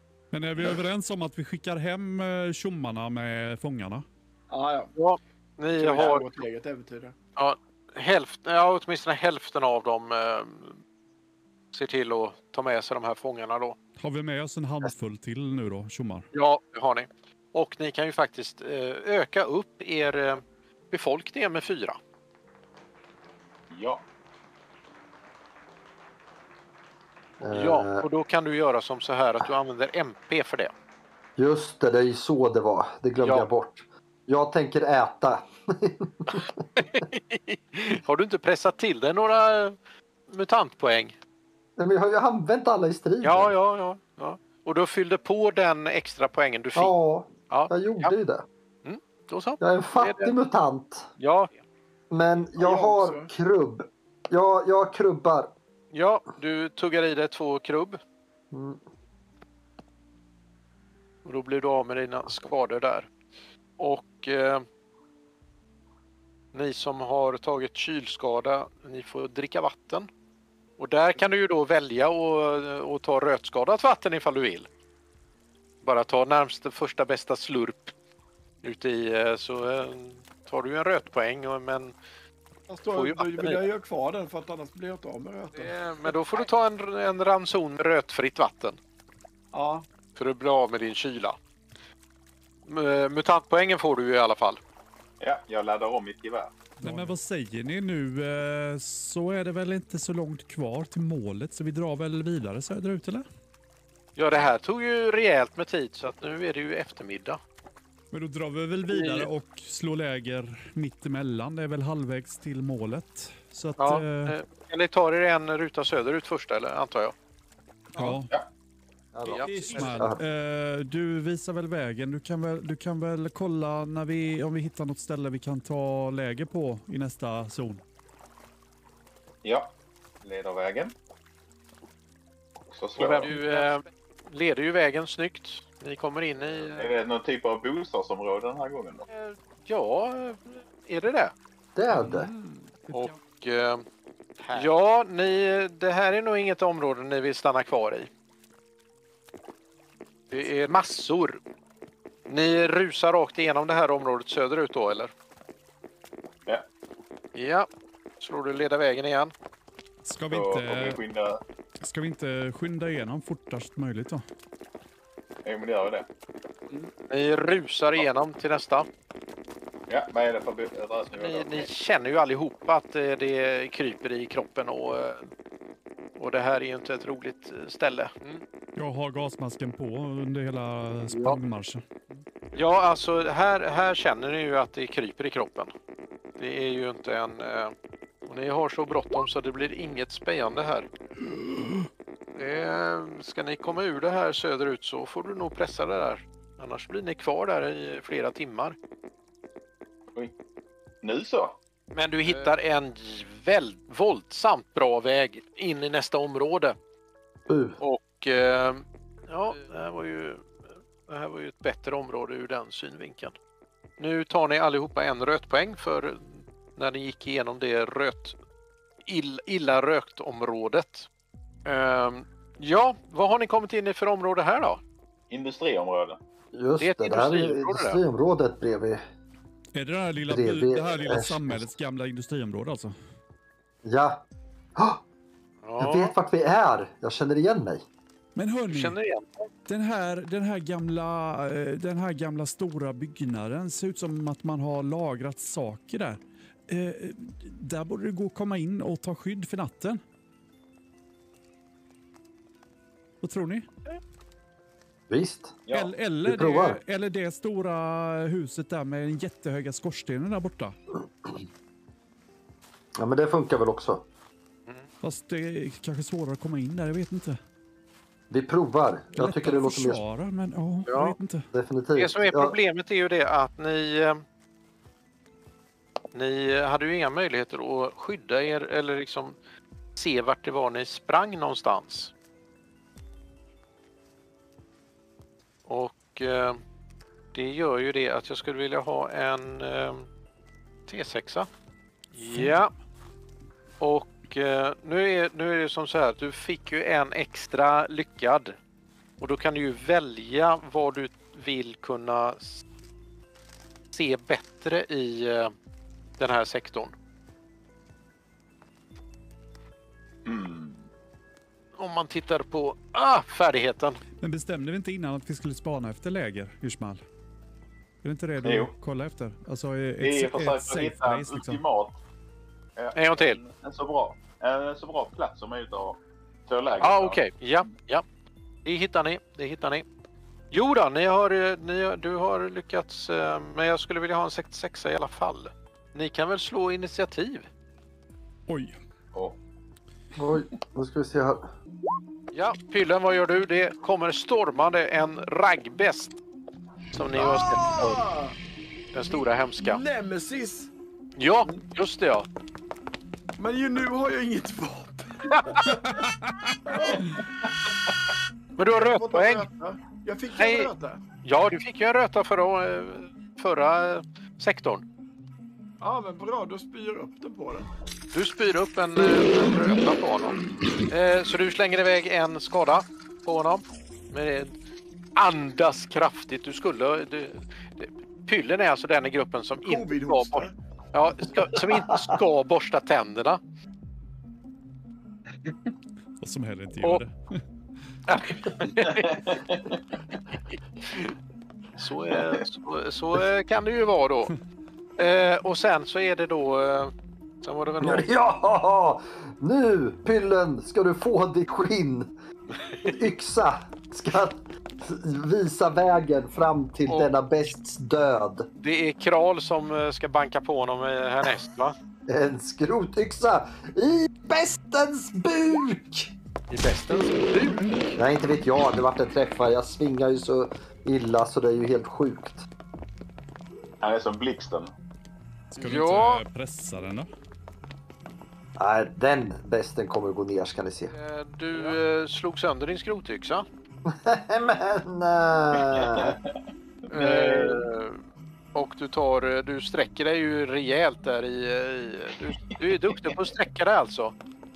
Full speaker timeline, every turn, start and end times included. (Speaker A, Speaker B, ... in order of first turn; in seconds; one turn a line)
Speaker A: 0.3-4.0
Speaker B: 4.5-4.9
Speaker C: 5.0-6.4
Speaker B: 5.8-7.2
Speaker C: 7.4-10.8
Speaker C: 11.7-13.8
Speaker A: 14.0-16.3
Speaker C: 16.3-22.0
Speaker D: 23.7-24.0
Speaker E: 27.4-28.1
Speaker C: 27.5-30.7
Speaker E: 31.4-36.5
Speaker C: 33.2-33.5
Speaker C: 36.3-39.8
Speaker C: 40.3-41.2
Speaker E: 41.8-43.5
Speaker C: 43.2-46.9
Speaker E: 46.8-48.5
Speaker C: 47.5-48.2
Speaker C: 48.8-50.3
Speaker E: 49.6-51.1
Speaker C: 51.2-51.5
Speaker E: 52.1-55.5
Speaker B: 52.6-53.3
Speaker C: 55.9-58.0
Speaker E: 58.5-58.8
Speaker C: 61.2-63.1
Speaker C: 63.8-64.7
Speaker C: 66.5-70.1
Speaker C: 70.8-74.7
Speaker C: 75.8-77.9
Speaker C: 78.6-82.0
Speaker B: 82.7-86.1
Speaker C: 82.9-83.6
Speaker C: 85.5-88.8
Speaker B: 89.5-89.9
Speaker C: 90.2-91.4
Speaker C: 92.7-94.6
Speaker D: 95.2-96.6
Speaker A: 96.8-103.3
Speaker C: 104.2-107.4
Speaker A: 108.1-114.3
Speaker C: 108.9-109.3
Speaker C: 113.8-117.2
Speaker A: 118.0-118.3
Speaker D: 118.0-118.5
Speaker E: 119.1-120.2
Speaker C: 119.2-120.0
Speaker A: 119.3-127.8
Speaker D: 129.4-130.9
Speaker D: 132.7-133.3
Speaker C: 133.0-137.0
Speaker A: 133.3-133.7
Speaker D: 136.7-139.1
Speaker C: 139.1-141.3
Speaker E: 141.8-142.3
Speaker A: 141.9-143.2
Speaker C: 142.9-143.8
Speaker C: 144.5-148.1
Speaker C: 150.3-151.4
Speaker C: 152.3-155.1
Speaker C: 157.3-157.7
Speaker C: 158.2-159.3
Speaker A: 160.0-161.0
Speaker D: 160.3-161.4
Speaker A: 161.8-164.2
Speaker D: 165.4-166.1
Speaker C: 167.1-168.9
Speaker D: 169.9-171.7
Speaker C: 171.2-175.3
Speaker C: 176.2-178.4
Speaker A: 178.8-181.8
Speaker C: 181.1-181.4
Speaker C: 182.5-185.7
Speaker C: 186.4-187.7
Speaker C: 188.3-190.9
Speaker C: 192.4-198.8
Speaker D: 201.0-201.6
Speaker C: 201.9-206.8
Speaker E: 207.5-207.8
Speaker C: 207.8-210.5
Speaker C: 211.1-213.3
Speaker C: 214.0-218.4
Speaker C: 219.1-221.1
Speaker C: 221.7-224.8
Speaker D: 225.3-226.2
Speaker E: 226.5-229.0
Speaker C: 226.8-228.0
Speaker A: 229.7-232.9
Speaker E: 230.3-231.7
Speaker E: 233.8-234.2
Speaker E: 234.8-235.0
Speaker C: 235.6-236.1
Speaker E: 235.8-237.8
Speaker A: 238.3-239.0
Speaker C: 238.7-239.5
Speaker A: 239.7-250.0
Speaker A: 253.2-253.7
Speaker E: 255.1-255.6
Speaker A: 255.7-260.8
Speaker E: 256.2-256.8
Speaker E: 263.0-264.1
Speaker A: 265.0-267.4
Speaker E: 268.3-270.0
Speaker A: 269.2-271.5
Speaker C: 270.9-271.2
Speaker E: 271.5-272.6
Speaker C: 272.0-274.2
Speaker C: 276.1-279.4
Speaker C: 280.0-282.1
Speaker C: 285.7-286.6
Speaker C: 287.3-290.1
Speaker C: 290.9-291.5
Speaker A: 292.1-292.6
Speaker C: 292.2-292.7
Speaker C: 293.8-298.6
Speaker C: 299.2-302.6
Speaker C: 303.9-305.5
Speaker C: 306.2-306.9
Speaker D: 310.2-310.9
Speaker C: 311.8-314.0
Speaker A: 314.2-317.0
Speaker A: 318.0-321.6
Speaker D: 318.4-318.7
Speaker D: 320.0-322.0
Speaker D: 322.8-327.2
Speaker C: 322.9-323.4
Speaker C: 326.8-328.1
Speaker C: 328.6-329.9
Speaker C: 330.5-337.5
Speaker A: 338.5-338.8
Speaker E: 340.2-341.5
Speaker C: 342.3-346.2
Speaker C: 346.9-348.1
Speaker B: 347.1-348.4
Speaker C: 348.9-349.8
Speaker B: 349.0-350.7
Speaker C: 351.2-352.3
Speaker B: 353.4-356.1
Speaker C: 355.3-355.7
Speaker A: 356.0-356.6
Speaker B: 356.7-357.2
Speaker C: 358.6-359.5
Speaker B: 358.8-361.0
Speaker C: 360.4-360.7
Speaker C: 361.2-364.8
Speaker B: 365.8-367.7
Speaker C: 368.1-374.5
Speaker C: 375.2-383.4
Speaker B: 379.6-380.5
Speaker A: 386.2-387.1
Speaker C: 388.1-389.4
Speaker D: 388.9-389.8
Speaker C: 390.3-391.1
Speaker C: 391.8-394.4
Speaker C: 395.0-398.1
Speaker E: 397.8-402.1
Speaker C: 402.6-403.0
Speaker E: 402.8-408.5
Speaker C: 408.6-411.8
Speaker E: 412.1-416.1
Speaker C: 416.5-418.0
Speaker E: 418.0-422.5
Speaker D: 423.8-424.7
Speaker A: 425.5-427.1
Speaker C: 425.6-426.2
Speaker E: 428.6-430.9
Speaker C: 430.9-433.4
Speaker E: 433.9-436.2
Speaker D: 435.6-436.3
Speaker C: 436.9-438.0
Speaker D: 436.9-437.7
Speaker C: 438.5-444.1
Speaker D: 442.8-443.1